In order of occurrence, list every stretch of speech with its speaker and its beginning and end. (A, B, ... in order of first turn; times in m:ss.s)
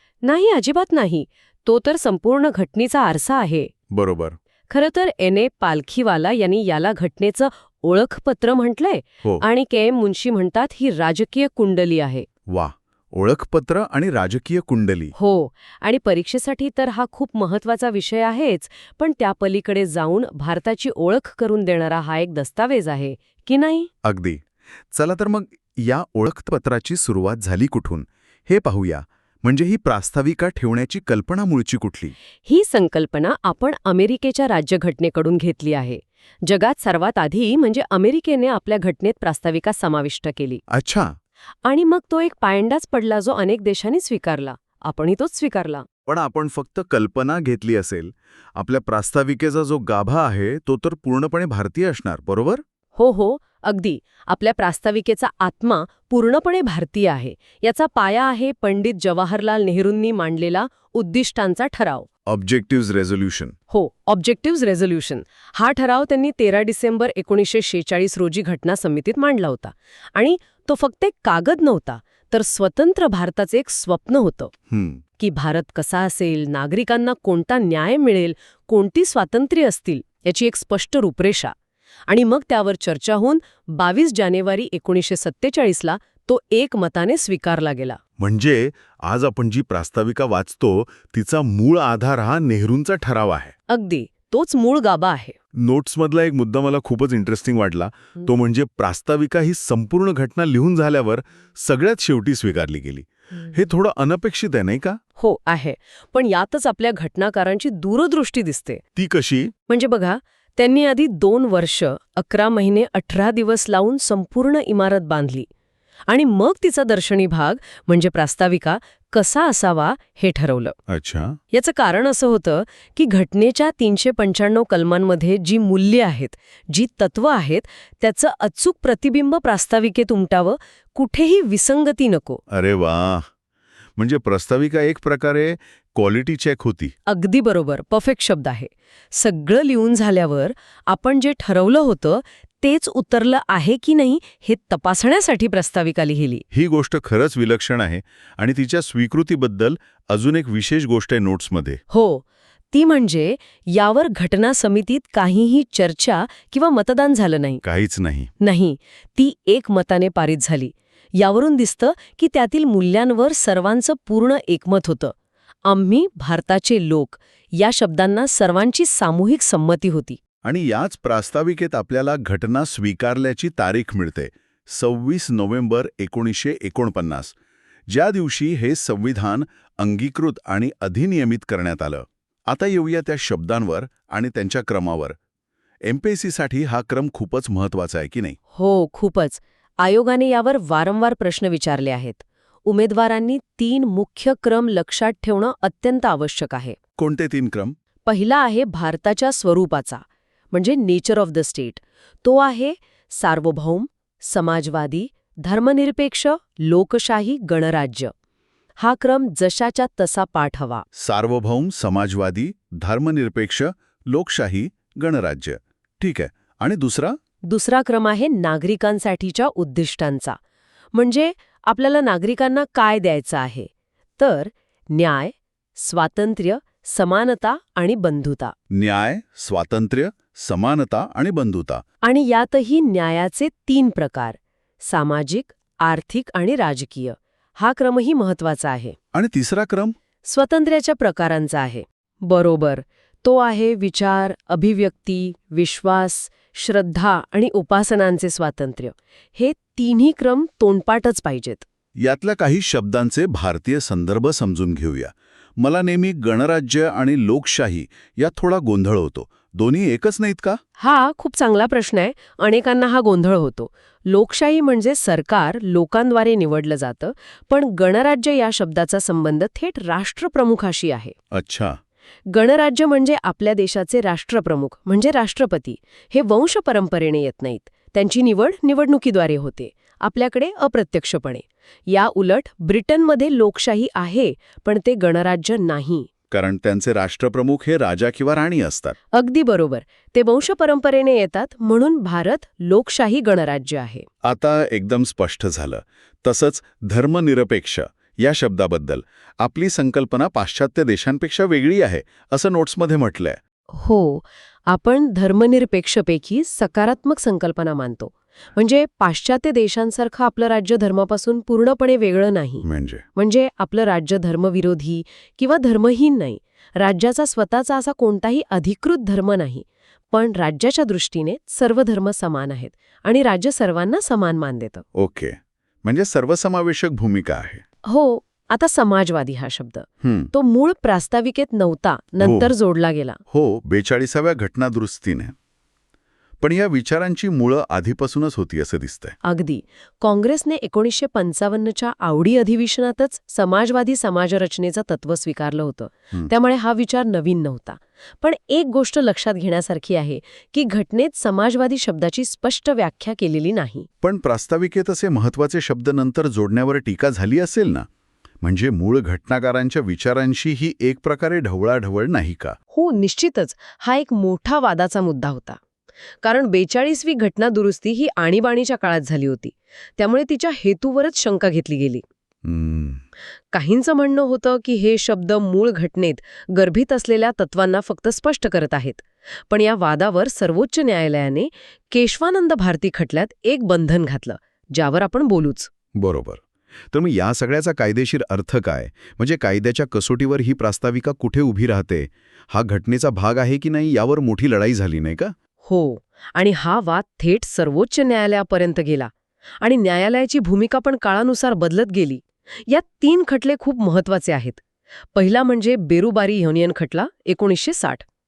0:00.2-0:03.7 A
0:03.9-0:04.4 B
0:04.7-0:12.3 A
0:12.5-0:15.1 B
0:15.2-0:23.9 A
0:24.0-0:32.1 B
0:32.4-0:40.6 A
0:40.7-0:41.1 B
0:41.6-0:45.8 A
0:46.1-0:52.6 B
0:53.0-1:02.1 A
1:02.3-1:03.5 B
1:03.7-1:14.5 A
1:14.7-1:15.0 B
1:15.2-1:21.5 A
1:22.1-1:28.0 A
1:28.2-1:33.5 B
1:33.7-1:35.4 A
1:35.5-1:45.0 B
1:45.2-1:48.8 A
1:49.0-1:49.5 B
1:49.7-1:55.5 A
1:56.1-2:00.8 A
2:00.9-2:01.4 B
2:01.5-2:12.4 A
2:12.5-2:13.3 B
2:14.0-2:16.9 B
2:17.1-2:26.4 A
2:26.5-2:31.8 B
2:31.9-2:37.6 A
2:37.6-2:38.3 B
2:38.4-2:45.1 A
2:45.6-2:50.2 A
2:50.4-2:57.4 B
2:57.9-3:05.2 B
3:05.9-3:08.4 B
3:08.6-3:16.8 A
3:17.0-3:17.8 B
3:18.1-3:28.1 A
3:28.8-3:30.8 A
3:30.9-3:37.2 B
3:37.5-3:40.4 A
3:40.9-3:48.6 A
3:48.7-3:51.8 B
3:52.0-3:59.0 A
3:59.1-4:00.0 B
4:00.2-4:11.7 A
4:12.0-4:20.6 B
4:20.8-4:31.2 A
4:31.3-4:31.8 B
4:32.3-4:46.1 A
4:46.3-4:49.0 B
4:49.1-4:54.1 A
4:54.2-5:03.4 B
5:03.7-5:12.6 A
5:12.6-5:13.0 B
5:13.2-5:24.8 A
5:25.0-5:27.6 B
5:27.9-5:33.2 A
5:30.0-5:30.3 B
5:32.2-5:32.5 B
5:33.3-5:35.3 B
5:36.4-5:39.2 B
5:39.2-5:53.9 A
5:54.0-5:57.9 B
5:58.4-6:02.6 B
6:02.7-6:05.6 A
6:06.2-6:12.0 A
6:12.4-6:13.0 B
6:13.5-6:25.7 A
6:26.0-6:26.4 B
6:26.9-6:35.3 B
6:35.6-6:44.6 A
6:45.2-6:48.0 A